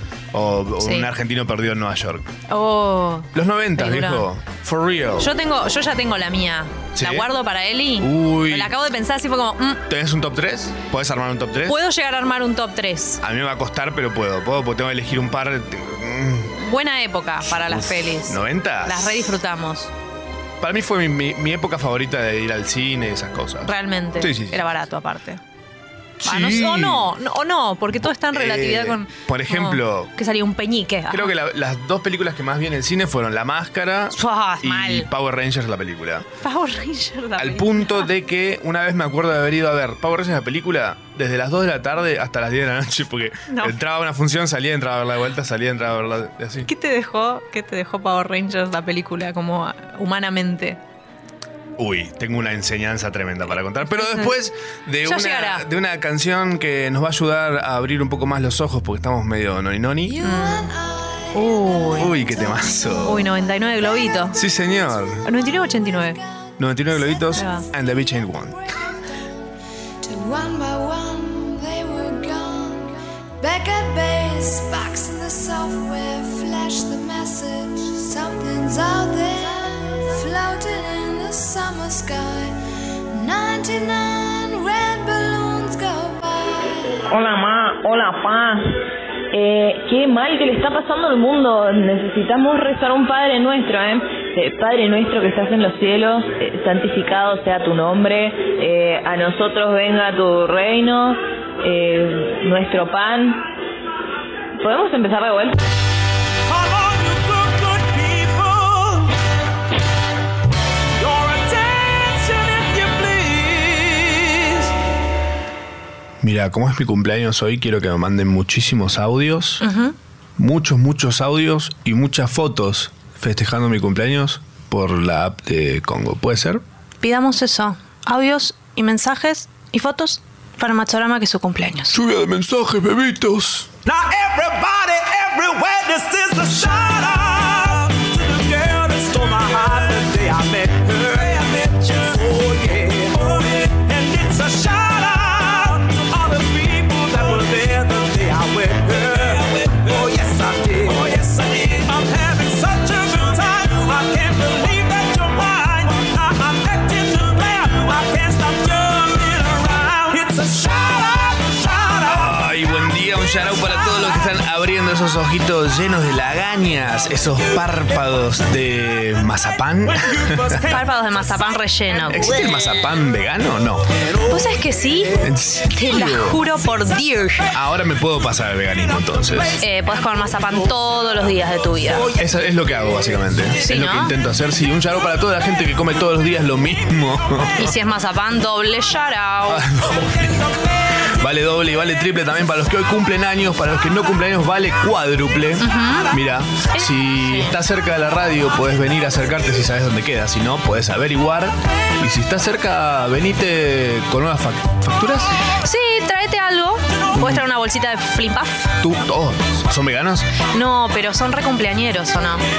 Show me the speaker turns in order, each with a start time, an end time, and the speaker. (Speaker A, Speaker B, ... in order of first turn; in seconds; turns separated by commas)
Speaker A: 0.3-2.3, Speaker B: 0.8-1.1, Speaker B: 2.5-4.2, Speaker A: 3.3-5.3, Speaker B: 5.2-9.8, Speaker A: 6.9-7.3, Speaker A: 8.0-8.7, Speaker A: 9.9-11.8, Speaker B: 11.7-13.2, Speaker A: 13.2-16.5, Speaker B: 16.6-19.9, Speaker A: 17.6-19.3, Speaker A: 20.6-24.6, Speaker B: 23.6-25.4, Speaker A: 26.2-27.1, Speaker B: 26.2-31.3, Speaker A: 28.1-30.1, Speaker A: 31.1-36.3, Speaker B: 34.1-35.1, Speaker B: 36.4-38.1, Speaker A: 37.4-46.7, Speaker B: 43.5-43.7, Speaker B: 46.6-50.8, Speaker A: 51.8-60.2, Speaker B: 53.9-54.3, Speaker B: 55.0-55.6, Speaker C: 60.1-67.3, Speaker B: 60.2-60.7, Speaker B: 61.3-62.2, Speaker A: 62.0-63.2, Speaker B: 63.0-64.4, Speaker A: 64.3-65.2, Speaker B: 65.2-66.2, Speaker A: 66.6-68.6, Speaker B: 67.3-67.7, Speaker C: 68.7-69.4, Speaker C: 70.0-82.5, Speaker C: 83.1-87.0, Speaker D: 87.1-88.8, Speaker D: 89.3-103.4, Speaker D: 104.6-105.6, Speaker E: 106.5-109.1, Speaker E: 111.0-114.7, Speaker A: 116.2-119.6, Speaker B: 119.6-119.9, Speaker A: 120.4-126.6, Speaker B: 127.0-132.0, Speaker A: 131.9-133.7, Speaker E: 133.8-162.3, Speaker A: 162.0-170.5, Speaker E: 170.0-170.8, Speaker B: 170.7-172.3, Speaker A: 172.1-173.9, Speaker B: 174.3-177.5, Speaker A: 175.2-176.4, Speaker A: 177.5-179.6, Speaker B: 179.6-182.1, Speaker A: 182.1-187.7, Speaker B: 183.6-184.1, Speaker B: 187.6-189.6, Speaker A: 189.5-190.4, Speaker A: 191.2-205.3, Speaker B: 195.6-196.1, Speaker B: 196.7-197.5, Speaker B: 205.6-208.7, Speaker A: 208.8-210.3, Speaker B: 210.5-212.4